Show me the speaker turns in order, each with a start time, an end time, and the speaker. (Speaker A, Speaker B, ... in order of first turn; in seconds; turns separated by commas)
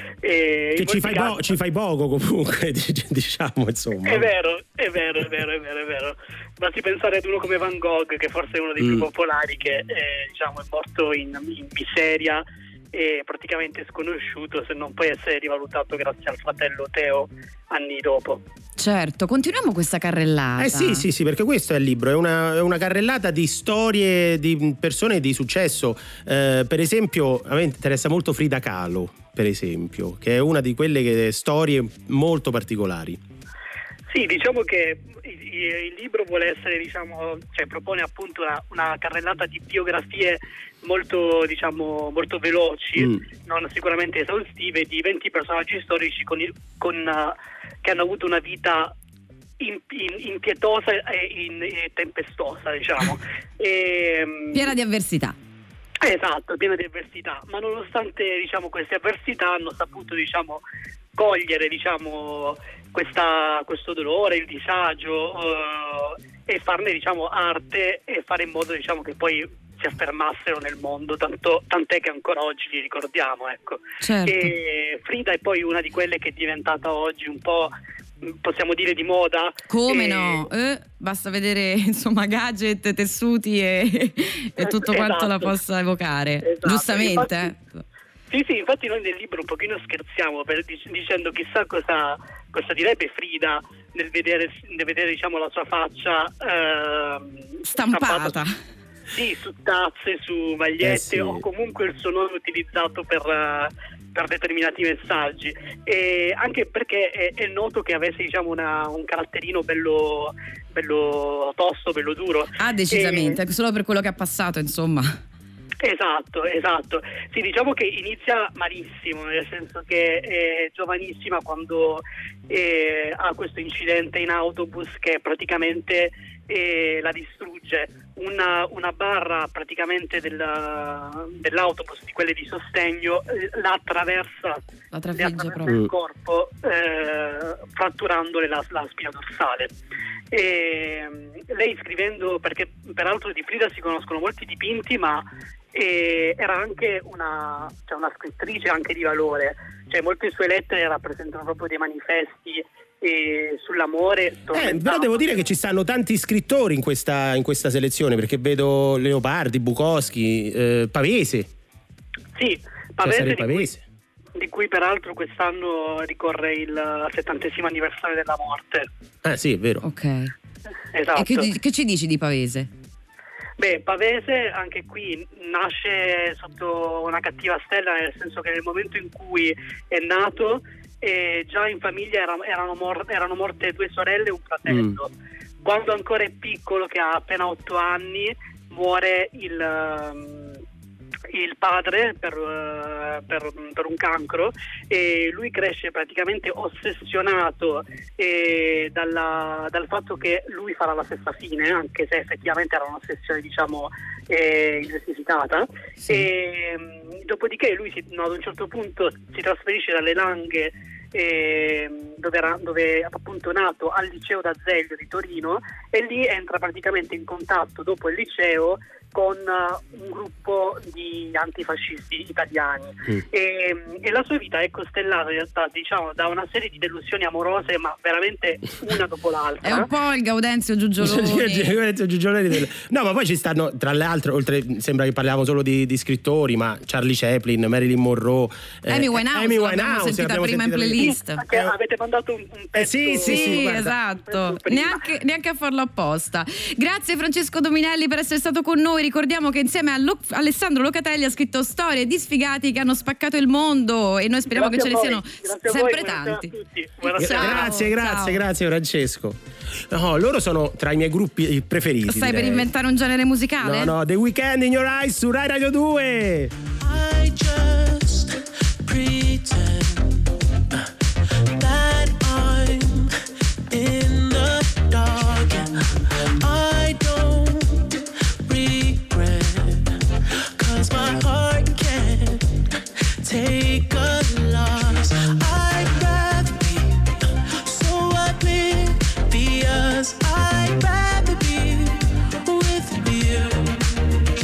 Speaker A: 0.2-1.5, Speaker B: 0.8-4.3, Speaker A: 4.0-18.4, Speaker C: 18.8-21.0, Speaker B: 20.6-33.2, Speaker A: 34.1-48.9, Speaker A: 49.6-54.7, Speaker C: 54.5-55.3, Speaker A: 56.0-60.6, Speaker A: 61.2-77.7, Speaker C: 74.0-74.5, Speaker A: 78.4-80.5, Speaker C: 79.7-87.6, Speaker A: 84.6-85.5, Speaker A: 86.4-87.5, Speaker A: 88.3-97.3, Speaker C: 97.7-98.5, Speaker A: 97.8-98.3, Speaker A: 99.1-113.3, Speaker B: 100.8-101.4, Speaker C: 112.6-115.2, Speaker A: 115.8-134.6, Speaker C: 134.9-135.8, Speaker A: 135.2-139.7, Speaker A: 140.3-155.4, Speaker B: 154.5-161.5, Speaker A: 162.3-163.7, Speaker B: 163.0-163.8, Speaker A: 164.4-168.9, Speaker B: 169.2-169.8, Speaker C: 169.8-170.3, Speaker A: 170.9-171.5, Speaker C: 171.2-172.7, Speaker A: 173.6-185.1, Speaker B: 184.7-184.9, Speaker A: 185.6-190.6, Speaker A: 191.3-229.9, Speaker C: 229.6-231.7, Speaker B: 231.0-241.7, Speaker C: 238.9-241.4, Speaker A: 241.0-245.0, Speaker B: 242.8-243.9, Speaker C: 243.2-256.5, Speaker A: 254.5-257.8, Speaker C: 257.0-258.4, Speaker B: 257.1-259.4, Speaker B: 259.9-262.7, Speaker C: 262.1-263.9, Speaker B: 263.6-266.5, Speaker D: 266.8-270.2, Speaker D: 271.4-273.1, Speaker D: 273.7-277.9, Speaker D: 278.4-279.9, Speaker D: 280.6-282.6, Speaker D: 283.2-293.8